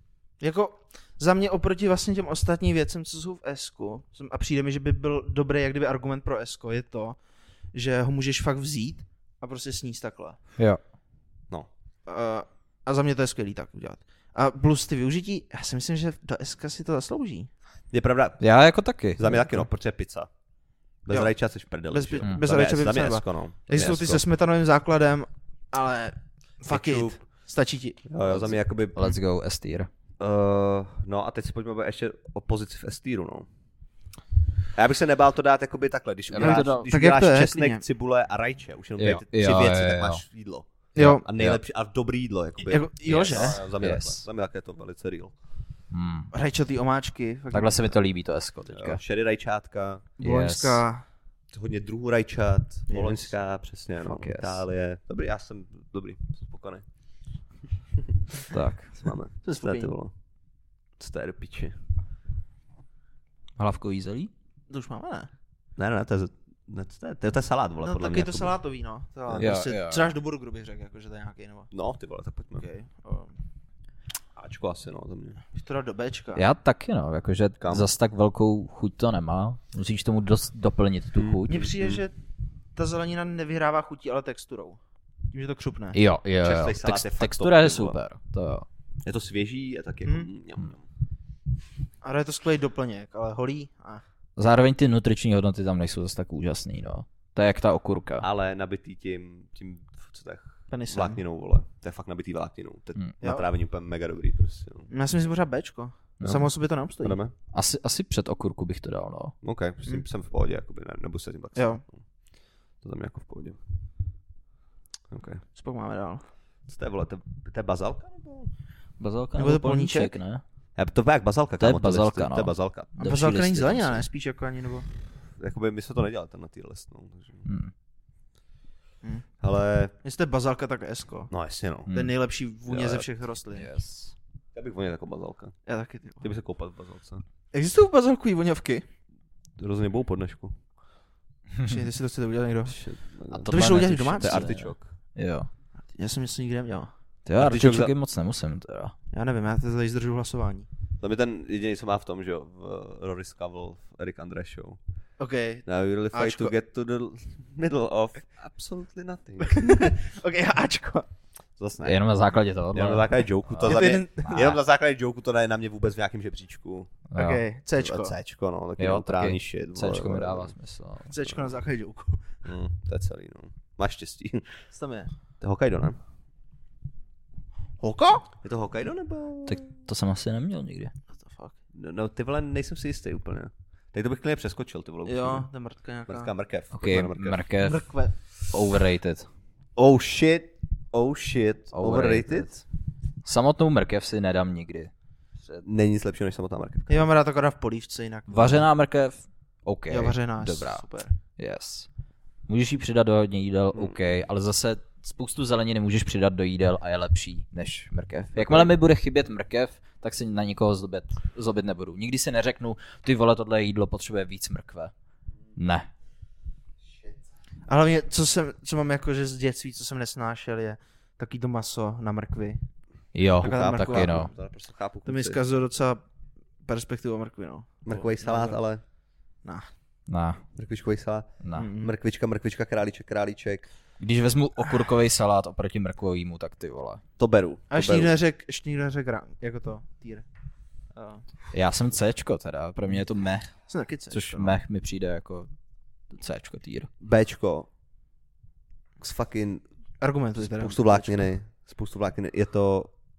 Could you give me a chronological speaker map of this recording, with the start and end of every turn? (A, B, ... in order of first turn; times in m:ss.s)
0:00.4-0:07.2 A
0:07.7-0:10.4 A
0:12.0-0:17.5 A
0:17.9-0:18.4 B
0:18.4-0:19.7 C
0:19.2-0:20.3 B
0:21.0-0:24.2 B
0:21.9-0:28.0 A
0:26.7-0:27.2 B
0:28.0-0:29.1 B
0:28.3-0:29.9 C
0:30.2-0:33.4 B
0:34.7-0:45.3 B
0:36.3-0:36.9 C
0:36.4-0:37.8 A
0:39.0-0:40.2 C
0:41.0-0:41.2 A
0:41.0-0:41.6 C
0:42.6-0:43.6 A
0:43.1-0:44.2 C
0:45.9-0:46.3 C
0:46.3-0:48.0 A
0:47.5-0:49.0 C
0:48.7-0:50.1 B
0:50.2-0:51.0 A
0:50.2-0:50.8 C
0:51.5-0:56.8 B
0:52.9-0:53.2 A
0:54.0-0:54.6 C
0:58.5-0:59.0 C
0:59.0-1:00.1 B
0:59.4-0:59.9 A
1:01.0-1:01.8 B
1:03.6-1:04.3 C
1:04.7-1:05.3 A
1:05.8-1:08.6 B
1:07.8-1:11.7 A
1:09.2-1:09.5 B
1:09.4-1:10.1 C
1:11.7-1:12.7 B
1:12.6-1:13.3 A
1:14.4-1:15.4 B
1:15.5-1:16.4 A
1:16.3-1:21.7 C
1:17.6-1:17.9 B
1:21.1-1:22.0 B
1:21.5-1:22.1 A
1:22.8-1:24.8 A
1:25.3-1:26.0 A
1:25.9-1:28.6 C
1:26.4-1:28.0 B
1:29.0-1:30.8 B
1:32.0-1:34.0 A
1:34.4-1:38.2 C
1:38.2-1:44.9 B
1:40.7-1:41.2 A
1:44.9-1:47.2 A
1:47.0-1:47.3 B
1:47.5-1:49.4 C
1:49.4-1:52.0 B
1:51.5-1:51.8 A
1:52.8-1:53.6 B
1:55.1-1:55.4 B
1:55.5-1:56.2 A
1:56.7-1:58.5 B
1:59.0-2:00.4 C
1:59.4-2:00.1 A
2:00.8-2:02.9 B
2:01.6-2:04.0 C
2:03.0-2:04.8 A
2:05.4-2:07.4 B
2:07.4-2:07.7 C
2:09.4-2:09.9 B
2:10.0-2:11.3 A
2:11.3-2:11.9 B
2:11.9-2:12.1 C
2:11.9-2:13.7 A
2:12.7-2:13.0 B
2:13.5-2:14.1 C
2:14.5-2:15.6 B
2:15.6-2:16.2 A
2:16.2-2:17.2 B
2:17.5-2:18.8 A
2:19.6-2:20.5 B
2:21.6-2:22.8 A
2:22.7-2:24.9 B
2:23.3-2:25.5 C
2:23.5-2:24.4 A
2:25.9-2:26.9 A
2:27.2-2:28.9 C
2:27.4-2:27.9 B
2:29.1-2:30.7 A
2:31.0-2:34.8 B
2:35.2-2:36.5 A
2:35.6-2:39.9 B
2:39.4-2:41.1 A
2:41.6-2:42.0 B
2:41.8-2:44.5 C
2:42.7-2:46.9 B
2:43.6-2:44.5 A
2:47.1-2:47.4 C
2:47.1-2:48.1 A
2:47.8-2:50.5 B
2:48.8-2:51.1 C
2:51.1-2:52.2 A
2:52.4-2:54.6 B
2:54.7-2:55.1 A
2:55.4-2:56.0 B
2:57.8-2:58.3 A
2:58.4-2:59.6 B
2:59.5-3:00.9 C
3:01.1-3:01.6 A
3:01.7-3:05.5 B
3:05.0-3:06.3 A
3:06.1-3:07.4 B
3:06.7-3:09.3 C
3:07.6-3:08.1 A
3:09.8-3:12.5 B
3:11.7-3:12.6 C
3:13.2-3:14.9 C
3:15.5-3:17.1 B
3:16.9-3:18.6 A
3:18.3-3:20.8 C
3:19.9-3:21.1 A
3:21.4-3:21.9 C
3:22.5-3:34.9 C
3:28.4-3:28.7 B
3:35.6-3:35.9 C
3:37.7-3:42.6 A
3:43.1-3:44.3 C
3:43.4-3:44.3 A
3:43.4-3:45.4 B
3:45.0-3:46.0 A
3:46.6-3:48.6 A
3:47.8-3:48.8 B
3:49.4-3:49.7 A
3:50.1-3:50.4 C
3:50.6-3:53.7 B
3:51.4-3:51.7 C
3:51.6-3:51.9 A
3:54.0-3:57.0 C
3:57.2-3:58.1 B
3:57.7-4:00.2 A
4:00.9-4:01.2 A
4:01.5-4:05.5 C
4:03.7-4:04.6 A
4:06.1-4:06.9 C
4:07.0-4:07.7 B
4:09.0-4:09.6 B
4:10.0-4:11.3 A
4:10.4-4:12.9 B